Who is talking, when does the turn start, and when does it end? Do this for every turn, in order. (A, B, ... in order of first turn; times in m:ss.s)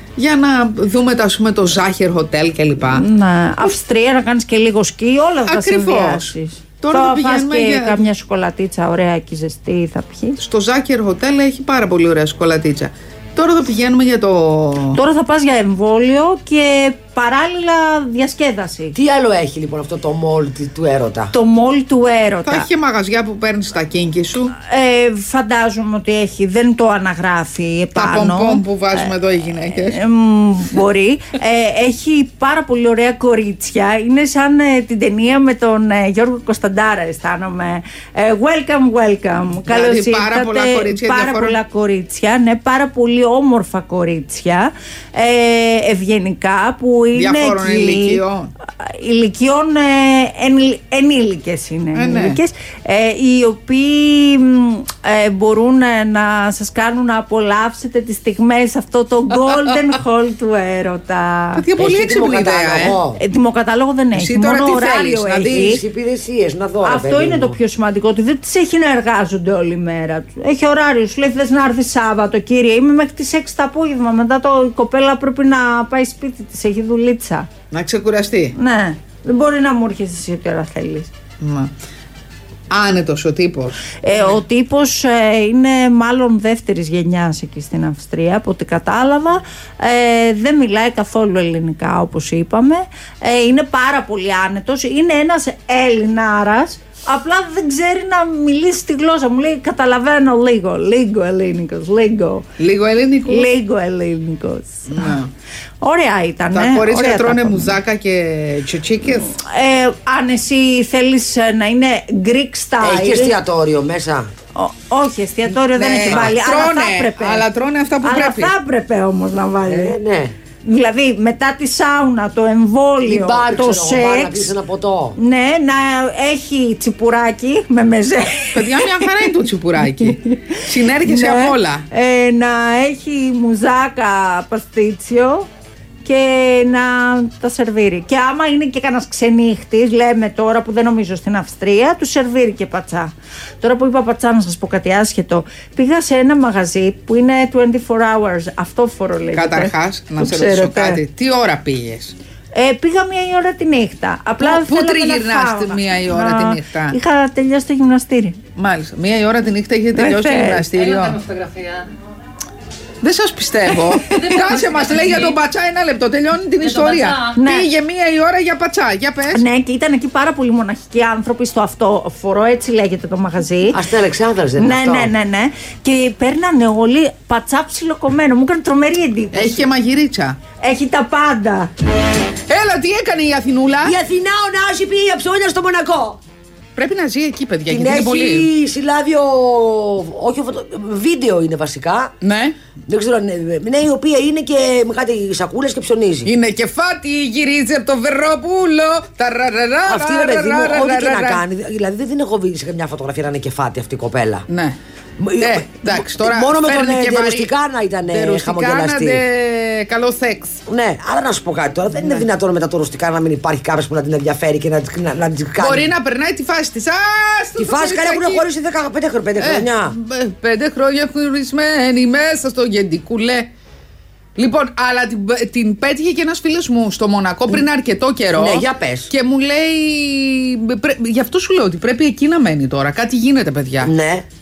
0:00.2-0:03.0 A
0:02.8-0:10.4 B
0:05.5-0:08.0 A
0:10.4-0:15.0 A
0:14.9-0:19.0 B
0:19.0-0:21.3 C
0:21.3-0:22.7 B
0:22.5-0:24.5 A
0:24.6-0:29.1 B
0:28.0-0:30.0 A
0:29.7-1:01.6 B
0:39.7-0:41.6 A
0:47.2-0:48.5 A
0:52.0-0:52.4 A
1:01.6-1:03.0 A
1:01.8-1:03.2 C
1:03.2-1:05.8 B
1:04.2-1:05.8 A
1:05.5-1:07.6 C
1:06.8-1:17.5 B
1:17.7-1:18.6 A
1:18.6-1:21.1 B
1:21.4-1:21.7 A
1:22.7-1:24.4 A
1:24.0-1:42.5 B
1:42.6-1:43.5 A
1:43.3-1:45.2 B
1:44.9-1:45.3 A
1:45.8-1:47.7 B
1:46.5-1:49.3 A
1:49.1-1:53.4 B
1:52.8-1:54.3 C
1:54.6-1:57.4 B
1:55.7-1:58.5 A
1:56.0-1:56.3 C
1:58.0-2:00.0 B
1:59.7-2:00.4 C
2:00.6-2:04.5 B
2:03.0-2:05.2 C
2:05.2-2:09.1 B
2:08.5-2:11.9 A
2:10.0-2:15.5 B
2:16.0-2:31.0 B
2:29.3-2:32.2 A
2:32.5-2:38.4 B
2:34.4-2:37.0 A
2:38.6-2:41.7 A
2:40.0-2:40.7 B
2:43.0-2:49.4 A
2:47.2-2:47.7 B
2:49.3-2:53.8 B
2:53.7-2:55.1 C
2:54.6-2:59.6 B
2:59.3-3:00.4 A
3:00.6-3:01.7 B
3:02.5-3:04.0 A
3:03.8-3:06.2 C
3:06.8-3:08.5 A
3:07.7-3:12.1 C
3:12.2-3:12.6 A
3:12.9-3:16.3 C
3:16.3-3:21.4 A
3:19.9-3:24.5 C
3:24.5-3:24.8 A
3:25.2-3:29.2 C
3:25.4-3:27.5 A
3:28.1-3:30.6 A
3:30.7-3:35.9 C
3:35.6-3:38.5 A
3:37.6-3:40.0 C
3:39.4-3:43.5 A
3:44.4-3:53.9 A
3:48.3-3:49.1 C
3:53.8-3:54.3 C